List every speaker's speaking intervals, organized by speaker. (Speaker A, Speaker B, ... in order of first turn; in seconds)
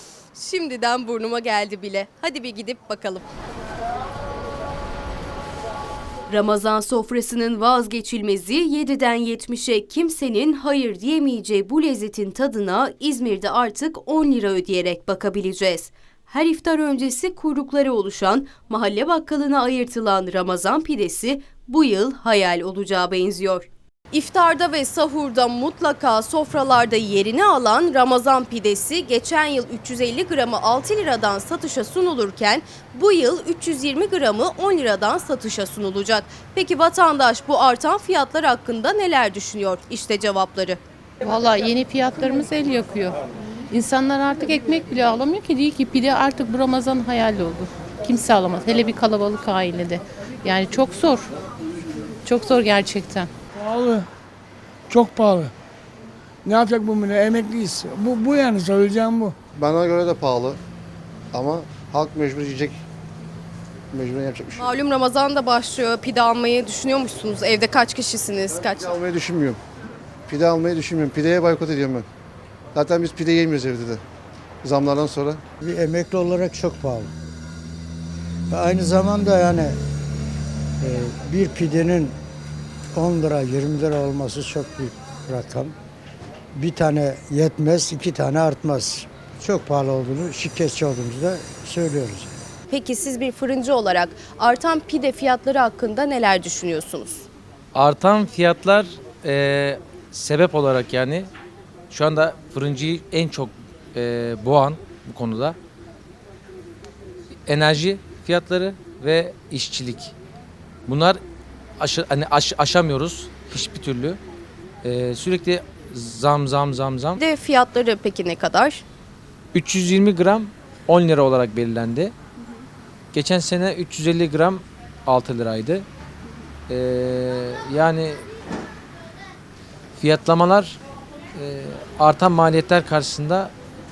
Speaker A: 0.3-3.2, 6.3-40.8, 64.5-69.0, 92.7-97.3, 117.2-118.8
Speaker B: 41.2-43.2, 43.7-51.3, 52.2-53.3
Speaker C: 53.5-54.1, 54.9-55.5, 56.4-59.4
Speaker D: 59.5-60.6, 61.3-62.8, 63.9-64.6, 68.5-69.6, 70.3-72.1, 72.7-74.0, 74.6-75.4
Speaker E: 75.6-77.1, 78.5-79.8, 80.8-82.1, 82.9-85.7, 86.5-92.3
Speaker F: 97.7-101.3, 101.9-105.6, 107.5-110.1, 110.8-111.2, 111.8-114.2, 114.8-117.2, 119.5-122.1, 123.1-125.8, 126.7-128.2, 129.9-130.8, 131.3-133.5